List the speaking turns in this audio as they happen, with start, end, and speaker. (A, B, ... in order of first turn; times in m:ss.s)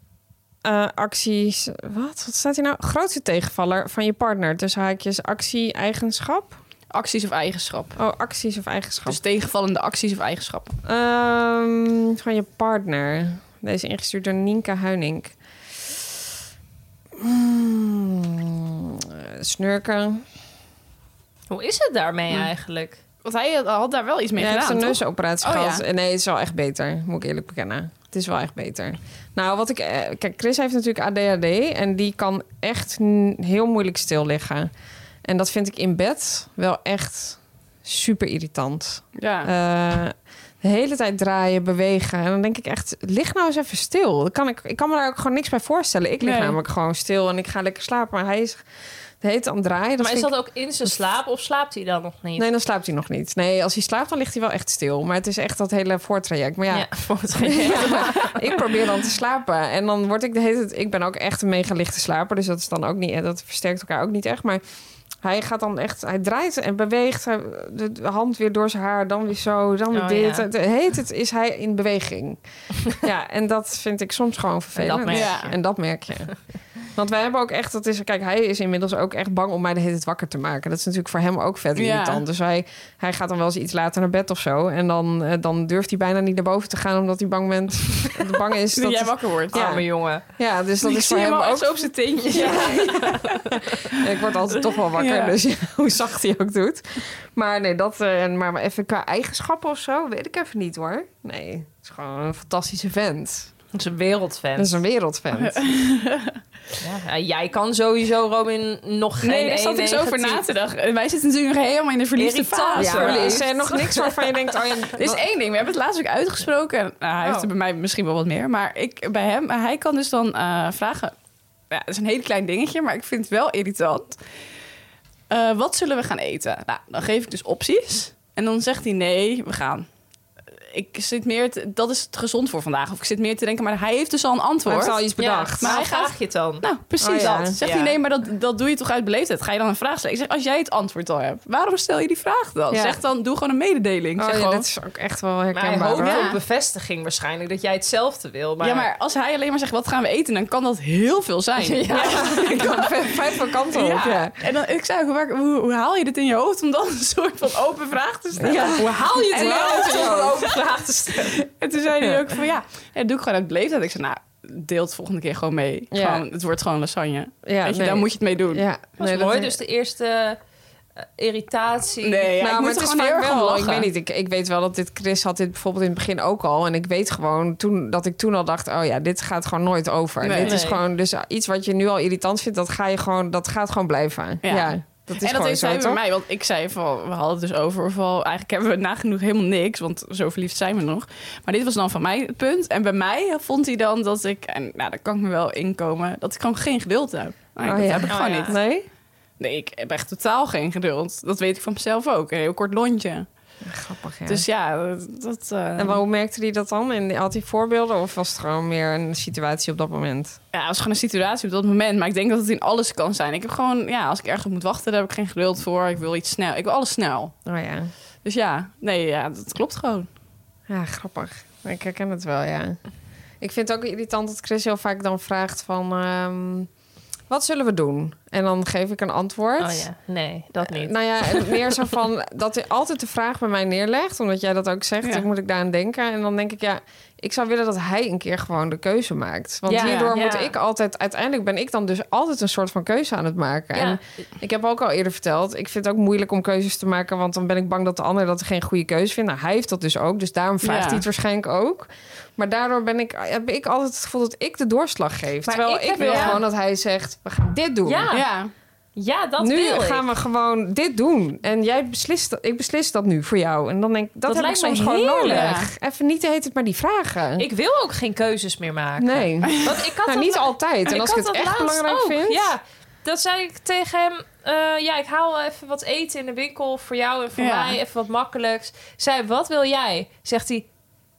0:00.6-0:06.6 A
0:06.9-0:08.0 B
0:08.0-0:09.2 A
0:09.1-0:10.8 B
0:10.8-0:15.3 A
0:17.2-0:20.2 A
0:21.5-0:23.0 C
0:23.2-0:25.8 B
0:24.4-0:34.7 A
0:35.2-0:48.6 A
0:39.2-0:39.5 B
0:46.2-0:46.6 B
0:49.2-0:50.3 A
0:50.0-0:52.5 C
0:52.4-1:04.6 A
0:56.7-0:58.6 C
1:05.2-1:12.4 A
1:09.9-1:10.5 C
1:12.9-1:16.3 A
1:14.8-1:15.5 C
1:15.1-1:15.5 B
1:16.9-1:43.5 A
1:21.8-1:22.2 B
1:28.7-1:29.6 B
1:29.5-1:30.2 C
1:30.8-1:33.4 B
1:32.3-1:33.4 C
1:34.9-1:35.4 B
1:43.7-1:44.8 C
1:44.6-1:45.6 A
1:45.4-1:46.4 B
1:46.8-1:50.4 C
1:49.2-1:53.6 B
1:52.2-1:54.3 C
1:52.8-1:55.2 A
1:55.0-2:01.2 B
1:57.2-1:57.5 C
2:01.7-2:04.2 B
2:05.3-2:09.9 B
2:10.7-2:15.0 B
2:14.7-2:15.8 A
2:15.2-2:18.0 C
2:15.6-2:24.7 B
2:17.0-2:17.6 A
2:22.7-2:23.0 A
2:24.2-2:26.3 A
2:25.5-2:28.9 C
2:26.0-2:26.4 B
2:28.6-2:33.1 B
2:31.6-2:32.6 C
2:31.9-2:34.4 A
2:33.7-2:40.4 B
2:38.4-2:40.6 A
2:38.4-2:41.4 C
2:41.5-2:48.6 B
2:45.9-2:46.2 A
2:47.4-2:49.5 A
2:49.0-2:50.4 C
2:51.0-2:52.3 C
2:52.0-2:53.9 B
2:52.4-3:06.0 A
3:00.2-3:00.6 B
3:00.4-3:00.8 C
3:04.4-3:18.6 B
3:17.6-3:18.9 A
3:18.1-3:18.6 C
3:19.4-3:23.3 B
3:23.6-3:24.4 A
3:24.3-3:26.0 B
3:25.8-3:30.4 A
3:30.5-3:37.3 B
3:37.5-3:37.9 A
3:38.2-3:40.1 B
3:40.7-3:42.8 A
3:43.4-3:46.7 A
3:47.3-3:49.9 A
3:49.6-3:51.8 C
3:50.6-4:18.1 A
3:59.7-4:00.5 C
3:59.7-4:00.1 B
4:03.7-4:04.0 C
4:10.6-4:11.0 B
4:15.4-4:16.4 C
4:16.0-4:16.4 B
4:17.8-4:18.3 C
4:18.1-4:18.5 B
4:19.0-4:20.1 C
4:19.4-4:27.4 A
4:24.3-4:25.6 C
4:25.3-4:25.7 B
4:27.4-4:40.7 C
4:29.0-4:32.5 A
4:37.4-4:37.8 B